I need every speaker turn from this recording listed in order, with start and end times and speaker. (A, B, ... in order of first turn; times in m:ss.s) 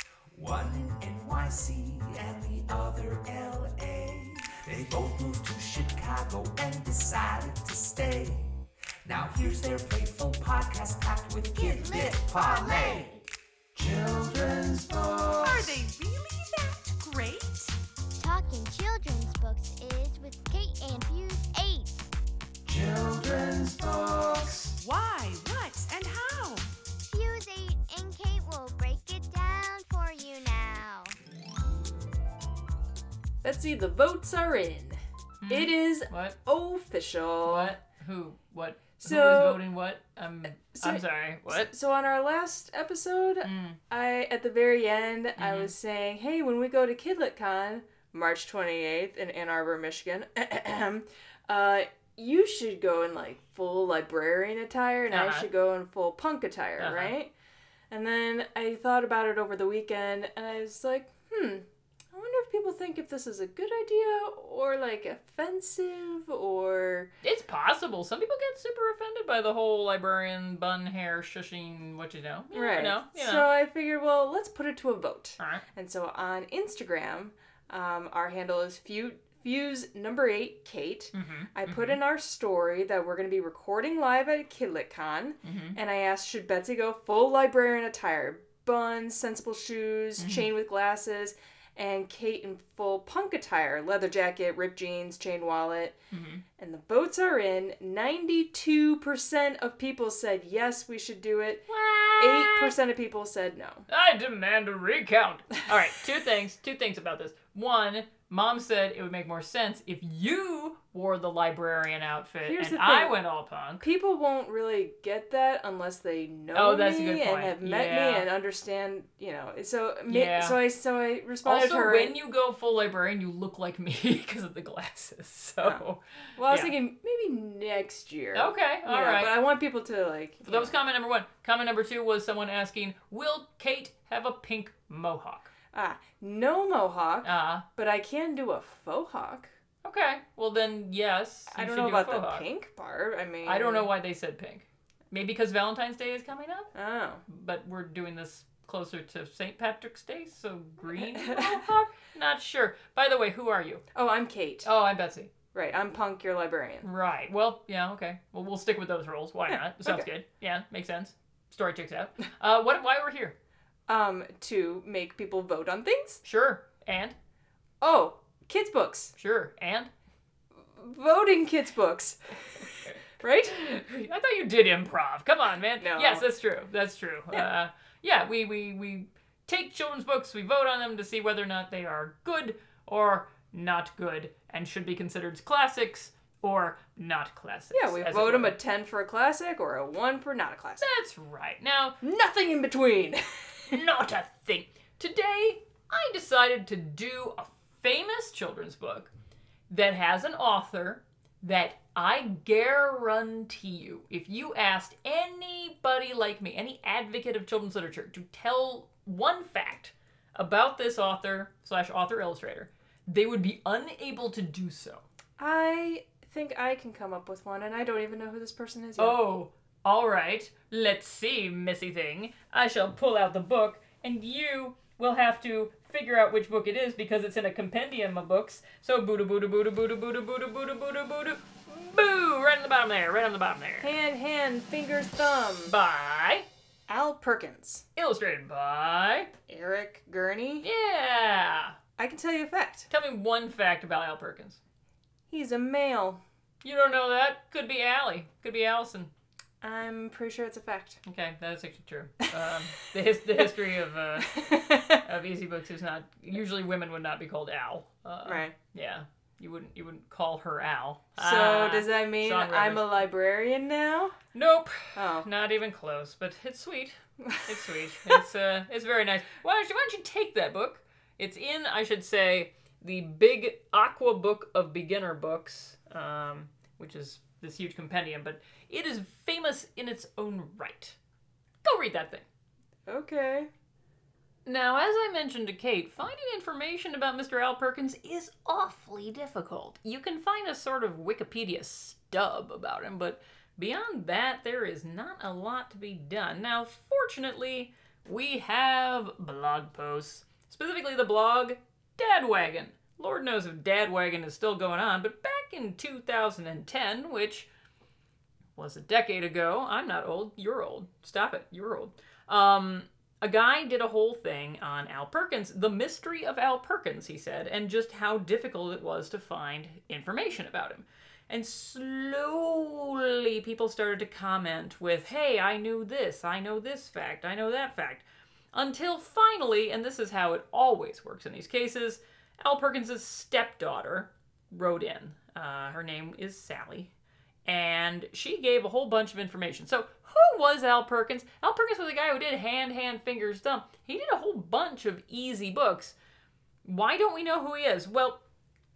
0:00.3-0:13.2 A
0:11.5-0:13.2 B
0:13.8-0:15.8 A
0:15.4-0:17.8 C
0:18.2-0:22.1 B
0:22.6-0:24.8 A
0:24.8-0:26.7 C
0:27.1-0:31.2 B
0:33.4-0:37.8 D
0:35.4-0:36.4 E
0:37.4-0:41.7 E
0:39.0-0:39.6 D
0:40.6-0:57.3 D
0:43.4-0:43.8 E
0:45.4-0:45.7 E
0:55.1-0:55.5 E
0:56.8-0:57.2 E
0:57.9-1:07.1 D
1:07.2-1:13.5 E
1:12.5-1:36.0 D
1:15.4-1:15.6 E
1:21.1-1:22.0 E
1:25.4-1:25.8 E
1:30.2-1:30.5 E
1:36.1-1:36.4 E
1:36.6-1:43.9 D
1:41.7-1:42.8 E
1:43.9-1:53.8 E
1:52.4-1:53.2 D
1:53.8-2:02.2 D
1:56.5-1:58.3 E
2:00.1-2:00.6 E
2:01.4-2:06.7 E
2:06.4-2:10.8 D
2:08.3-2:09.4 E
2:10.4-2:15.5 E
2:15.7-2:19.5 D
2:17.2-2:17.6 E
2:19.8-2:22.5 E
2:21.5-2:23.9 D
2:23.4-2:26.7 E
2:26.7-2:27.2 D
2:27.3-2:33.8 E
2:30.9-2:31.6 D
2:33.9-2:34.7 D
2:34.6-2:35.3 E
2:35.5-2:36.9 D
2:36.8-2:43.4 E
2:39.5-2:40.1 D
2:43.9-2:46.2 D
2:46.2-2:47.2 E
2:47.8-2:49.1 D
2:49.2-2:49.9 E
2:50.7-2:52.6 D
2:53.2-2:53.6 D
2:53.5-3:08.6 E
2:55.8-2:56.3 D
3:07.7-3:10.8 D
3:10.8-3:12.0 E
3:12.0-3:13.8 D
3:13.7-3:19.1 E
3:19.7-3:35.0 E
3:35.4-3:39.2 D
3:39.0-3:53.9 E
3:53.8-3:55.8 D
3:55.7-3:56.5 E
3:56.9-3:57.9 D
3:58.0-3:59.3 E
3:59.5-4:00.7 D
4:00.6-4:01.8 E
4:02.0-4:02.9 D
4:02.9-4:04.6 E
4:05.3-4:06.2 D
4:06.6-4:09.1 E
4:09.6-4:11.0 D
4:11.0-4:23.0 E
4:14.2-4:15.0 D
4:18.2-4:18.6 D
4:21.2-4:24.2 D
4:24.3-4:41.0 E
4:24.9-4:25.3 D
4:27.2-4:28.2 D
4:41.6-4:42.3 E
4:42.9-4:43.5 D
4:44.4-5:07.5 E
5:08.6-5:36.9 E
5:37.4-5:46.0 E
5:46.6-5:48.2 E